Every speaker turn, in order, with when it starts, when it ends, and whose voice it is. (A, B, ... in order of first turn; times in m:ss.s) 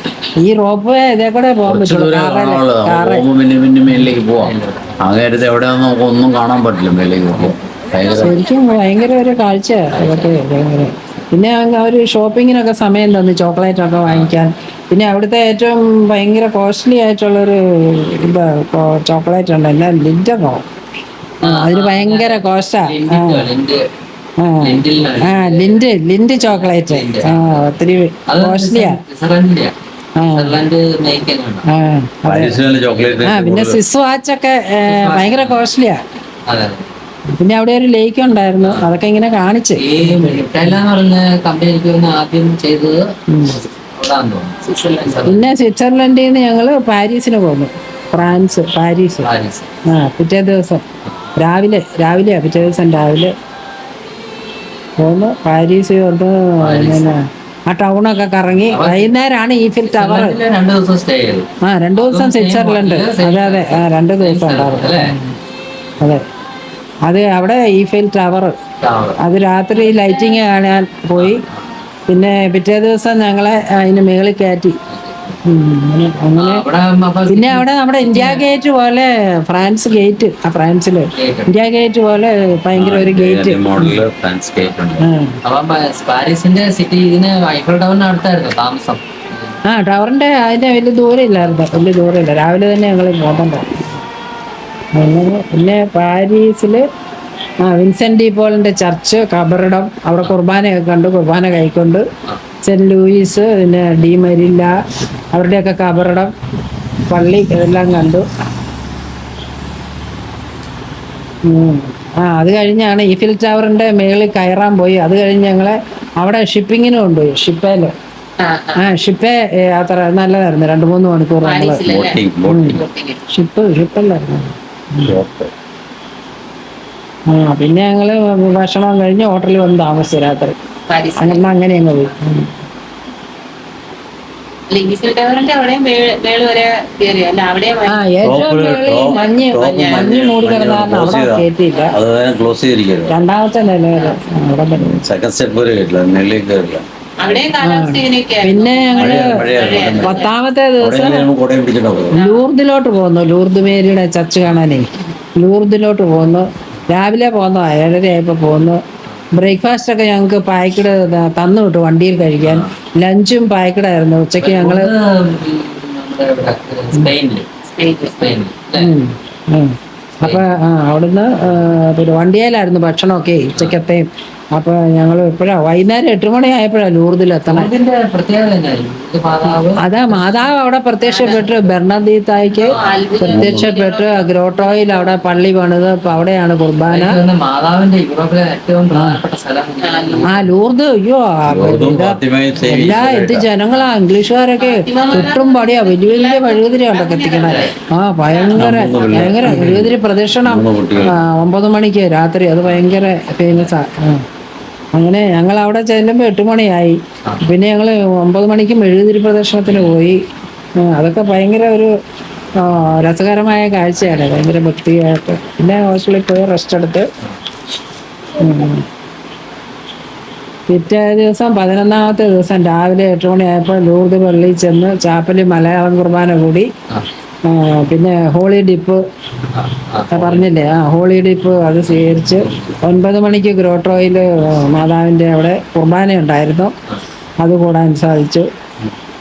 0:00.4-0:03.3 A
0:01.7-0:08.4 B
0:04.4-0:05.0 C
0:07.3-0:07.6 C
0:08.1-0:20.6 A
0:09.9-0:10.4 C
0:14.0-0:14.3 C
0:21.4-0:23.5 A
0:21.4-0:23.8 C
0:24.4-0:29.0 A
0:24.6-0:25.8 C
0:26.4-0:27.8 C
0:28.3-0:29.7 C
0:30.2-0:30.6 A
0:30.2-0:31.6 C
0:31.7-0:36.0 A
0:32.3-0:33.8 B
0:32.8-0:33.3 C
0:34.8-0:35.7 C
0:36.5-0:36.9 C
0:37.3-0:40.9 A
0:39.8-0:43.1 C
0:43.3-0:43.6 A
0:43.8-0:45.5 C
0:45.2-0:49.3 A
0:49.2-0:49.7 C
0:49.9-0:50.8 A
0:51.4-0:53.3 A
0:55.0-1:00.4 A
0:56.6-0:57.1 C
0:58.7-0:59.1 C
0:59.8-1:05.1 C
1:01.6-1:05.4 A
1:07.0-1:08.5 A
1:08.8-1:09.2 C
1:09.2-1:11.4 A
1:09.8-1:10.4 D
1:11.2-1:11.6 C
1:12.1-1:14.8 A
1:14.9-1:15.4 C
1:15.4-1:16.6 A
1:16.4-1:18.4 C
1:17.3-1:24.0 A
1:21.2-1:21.5 C
1:22.8-1:25.1 B
1:25.0-1:25.4 A
1:25.4-1:29.6 C
1:29.7-1:33.9 A
1:34.9-1:36.8 A
1:37.6-1:42.0 A
1:42.6-1:44.7 A
1:45.3-1:46.3 A
1:47.1-1:48.3 A
1:51.4-1:57.9 A
1:58.4-1:58.8 D
1:58.8-2:01.8 A
2:01.4-2:02.2 D
2:01.8-2:02.8 B
2:02.4-2:05.2 A
2:02.7-2:03.2 D
2:05.0-2:05.5 B
2:07.3-2:10.6 A
2:10.9-2:11.4 D
2:11.2-2:12.5 A
2:14.7-2:20.1 D
2:17.9-2:22.0 A
2:18.2-2:23.2 B
2:23.1-2:25.0 A
2:24.0-2:24.2 D
2:24.8-2:26.8 B
2:27.2-2:30.3 D
2:27.6-2:31.3 A
2:29.0-2:30.2 B
2:30.8-2:32.2 B
2:32.1-2:38.8 A
2:32.1-2:32.5 D
2:39.3-2:44.9 A
2:42.4-2:42.7 C
2:44.4-2:47.5 C
2:47.8-2:48.3 D
2:48.2-2:48.9 C
2:48.8-2:57.7 A
2:57.5-3:00.4 C
2:59.5-3:07.2 A
3:01.0-3:01.6 D
3:02.6-3:05.2 D
3:02.7-3:03.0 C
3:03.3-3:03.7 B
3:06.9-3:10.3 C
3:08.9-3:09.2 A
3:09.8-3:10.3 D
3:10.2-3:24.2 A
3:11.5-3:13.5 B
3:14.6-3:17.6 D
3:18.3-3:18.7 D
3:18.6-3:21.2 B
3:19.1-3:19.6 C
3:24.9-3:30.2 A
3:29.7-3:29.9 C
3:30.8-3:31.9 A
3:32.6-3:37.1 A
3:38.4-3:38.8 A
3:40.7-3:46.7 A
3:47.4-3:49.0 A
3:49.5-3:50.5 C
3:50.1-3:56.7 A
3:52.3-3:52.8 C
3:57.4-3:58.5 A